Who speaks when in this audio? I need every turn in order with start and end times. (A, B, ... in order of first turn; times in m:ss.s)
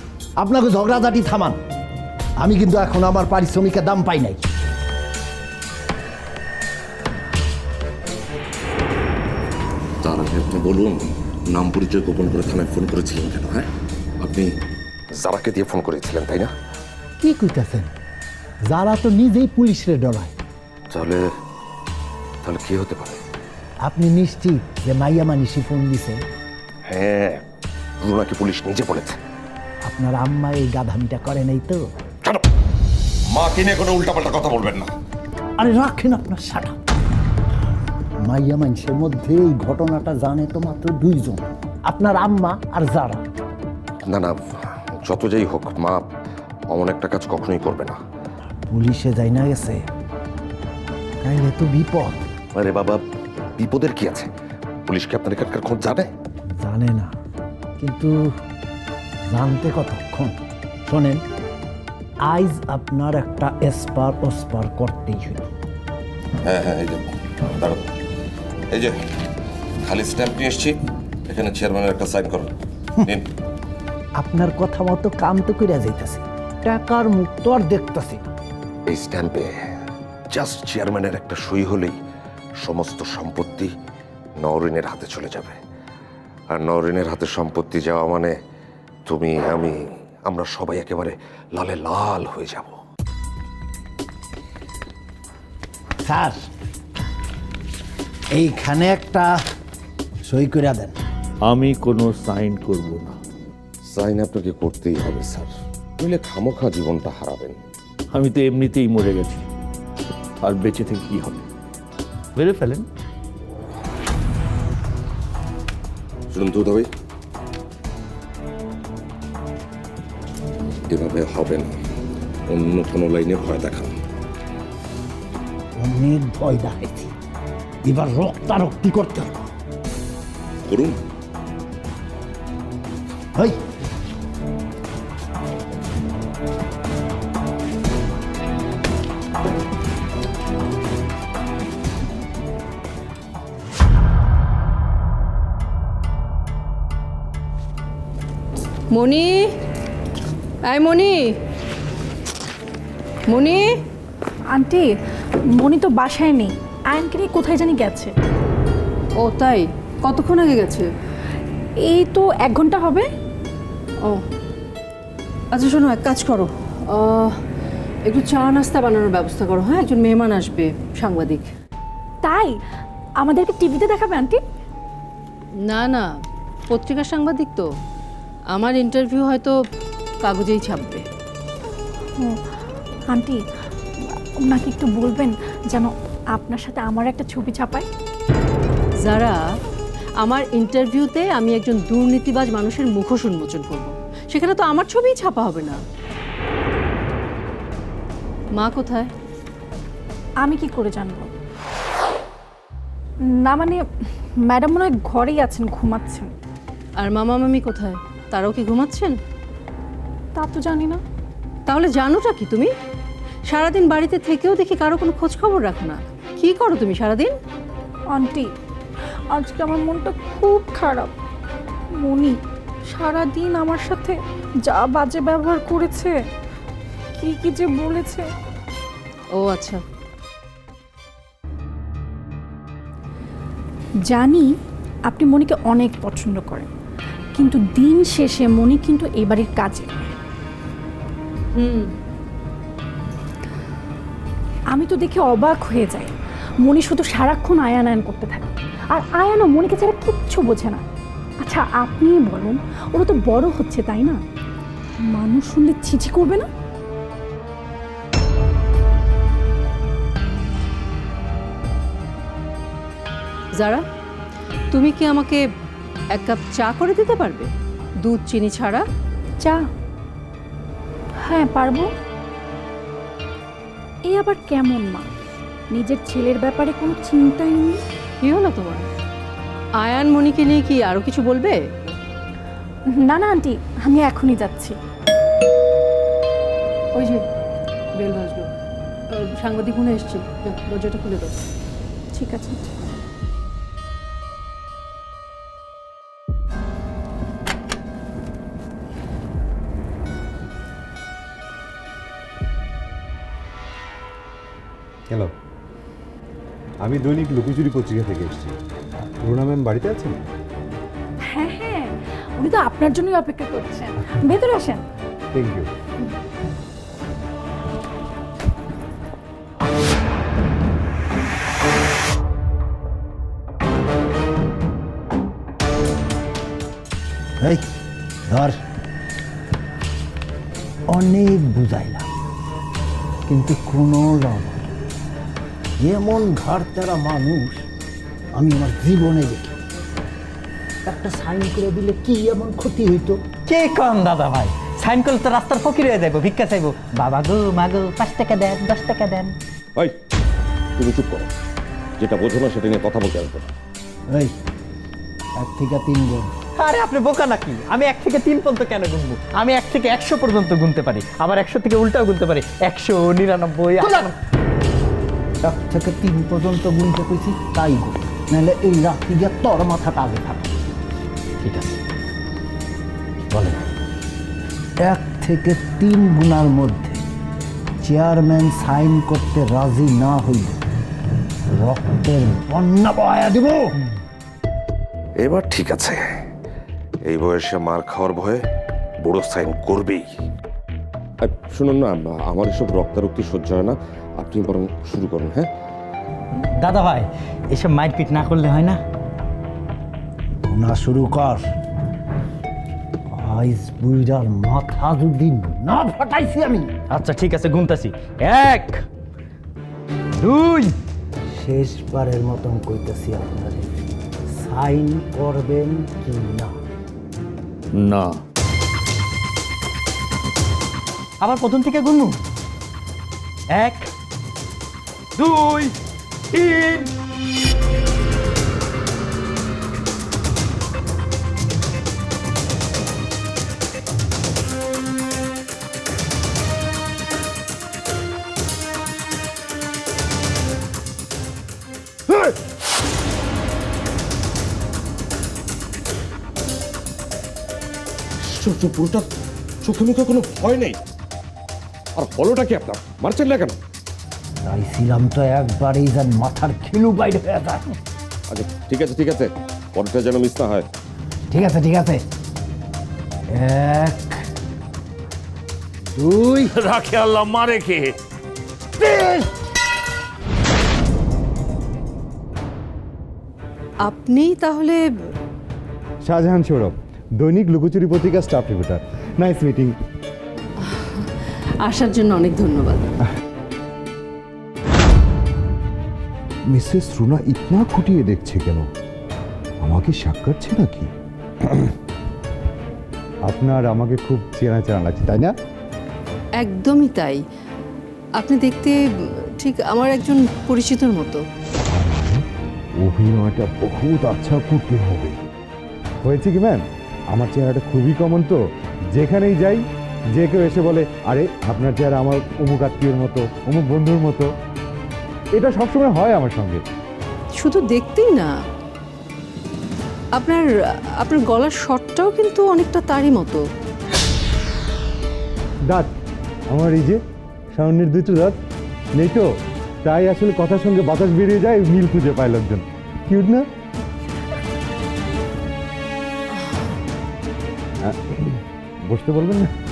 0:00.4-0:01.6 A
0:02.4-0:04.4 A
0:10.0-0:13.7 B
0:14.2-0:14.5 B
0:15.2-0:16.5 B
0:17.2-0:17.9 A
0:18.7-0:20.3 A
0:20.9-0:21.2 B
0:22.4-0:23.2 B
0:23.8-0:26.2 A
0:26.9-0:27.4 B
0:28.0-0:29.2 B
0:29.8-0:31.9 A
0:33.4-0:34.9 B
0:35.6-0:36.8 A
0:38.2-0:43.2 A
0:44.1-0:44.4 B
0:45.0-0:46.0 B
0:46.7-0:48.0 B
0:48.7-0:49.8 A
0:51.2-0:52.2 A
0:52.6-0:53.0 B
0:53.6-0:54.3 B
0:54.9-0:56.1 B
0:56.6-0:57.1 A
0:57.8-0:58.2 A
0:59.3-1:00.3 A
1:00.9-1:01.2 A
1:02.2-1:05.5 A
1:06.4-1:07.9 B
1:09.8-1:10.8 B
1:11.3-1:12.5 B
1:14.2-1:18.2 A
1:18.9-1:19.5 B
1:20.3-1:22.0 B
1:22.6-1:23.7 B
1:24.4-1:25.6 B
1:26.5-1:28.3 B
1:29.1-1:32.8 B
1:36.0-1:36.4 A
1:38.3-1:39.3 A
1:40.3-1:41.0 A
1:41.5-1:43.2 C
1:43.9-1:47.6 B
1:48.1-1:49.5 C
1:50.4-1:51.5 C
1:52.4-1:52.9 C
1:56.3-1:56.9 B
2:00.9-2:01.7 B
2:02.5-2:03.9 B
2:05.8-2:07.1 A
2:07.8-2:09.4 A
2:10.6-2:11.0 B
2:28.9-2:29.5 D
2:30.6-2:31.3 D
2:33.2-2:33.7 D
2:34.5-2:34.9 E
2:35.6-2:38.1 E
2:39.2-2:40.9 D
2:41.9-2:43.1 E
2:45.5-2:47.4 D
2:48.1-2:51.5 D
2:52.2-2:52.5 E
2:53.2-2:54.4 E
2:55.6-2:56.1 D
2:56.7-2:57.7 D
2:58.5-2:59.6 D
3:00.2-3:01.0 D
3:03.1-3:03.4 E
3:04.5-3:07.9 E
3:09.0-3:09.4 D
3:10.2-3:15.8 D
3:18.6-3:19.1 D
3:20.4-3:21.3 E
3:23.4-3:23.8 E
3:24.5-3:26.3 E
3:27.0-3:29.2 D
3:30.4-3:31.0 E
3:31.7-3:32.7 D
3:33.5-3:37.3 D
3:38.1-3:38.5 E
3:39.3-3:41.1 E
3:42.0-3:42.4 E
3:42.9-3:46.2 E
3:47.2-3:48.3 E
3:49.3-3:49.8 D
3:54.1-3:54.5 E
3:55.1-3:56.7 E
3:57.4-4:00.1 E
4:01.6-4:01.8 D
4:04.7-4:06.1 E
4:06.6-4:10.8 E
4:11.4-4:14.2 E
4:15.2-4:16.5 E
4:23.6-4:23.8 D
4:24.7-4:25.4 D
4:26.2-4:27.5 D
4:28.0-4:28.8 D
4:31.3-4:31.9 E
4:34.1-4:35.1 E
4:35.7-4:37.8 E
4:38.2-4:38.9 D
4:39.8-4:41.9 D
4:43.0-4:44.8 E
4:47.0-4:47.2 D
4:48.0-4:48.5 D
4:49.1-4:51.4 D
4:52.2-4:52.6 E
5:06.8-5:08.6 F
5:09.2-5:10.2 F
5:11.3-5:14.8 E
5:15.3-5:15.7 F
5:28.3-5:28.6 A
5:30.9-5:32.1 A
5:33.3-5:34.6 A
5:35.8-5:37.6 A
5:38.4-5:39.5 A
5:40.8-5:43.2 A
5:43.5-5:49.4 G
5:50.8-5:51.3 B
5:52.0-5:53.5 B
5:55.4-5:56.3 A
5:56.6-6:04.2 G
6:05.4-6:10.5 A
6:11.4-6:11.8 G
6:13.3-6:13.6 A
6:14.8-6:17.0 A
6:17.8-6:20.6 A
6:21.6-6:23.8 A
6:25.2-6:26.0 B
6:27.1-6:28.4 B
6:29.0-6:30.0 B
6:31.2-6:35.5 B
6:36.6-6:38.8 G
6:40.5-6:41.4 A
6:43.1-6:46.7 A
6:46.9-6:48.8 G
6:50.2-6:50.7 G
6:51.3-6:53.7 A
6:54.3-6:56.6 A
6:57.7-6:58.2 C
7:01.2-7:02.2 G
7:03.5-7:03.9 G
7:05.2-7:05.7 G
7:06.3-7:06.9 G
7:28.2-7:29.1 B
7:29.6-7:30.8 B
7:32.0-7:33.6 B
7:34.4-7:37.7 A
7:38.3-7:40.7 B
7:41.3-7:42.0 A
7:43.3-7:44.2 A
7:46.0-7:46.5 A
7:46.5-7:48.0 C
7:48.8-7:49.2 A
7:53.8-7:54.8 D
7:56.0-7:59.7 F
8:00.6-8:01.1 D
8:01.6-8:02.9 D
8:06.5-8:08.6 F
8:09.6-8:10.9 F
8:13.3-8:15.3 F
8:16.4-8:17.2 D
8:18.2-8:18.8 D
8:19.4-8:21.2 D
8:21.7-8:22.2 F
8:22.8-8:25.2 F
8:26.0-8:28.4 F
8:29.0-8:29.6 F
8:30.2-8:34.3 F
8:35.4-8:36.6 F
8:37.4-8:38.3 D
8:40.2-8:43.4 D
8:46.5-8:47.0 F
8:47.6-8:48.4 F
8:49.0-8:49.3 F
8:49.8-8:53.4 F
8:57.8-8:59.5 F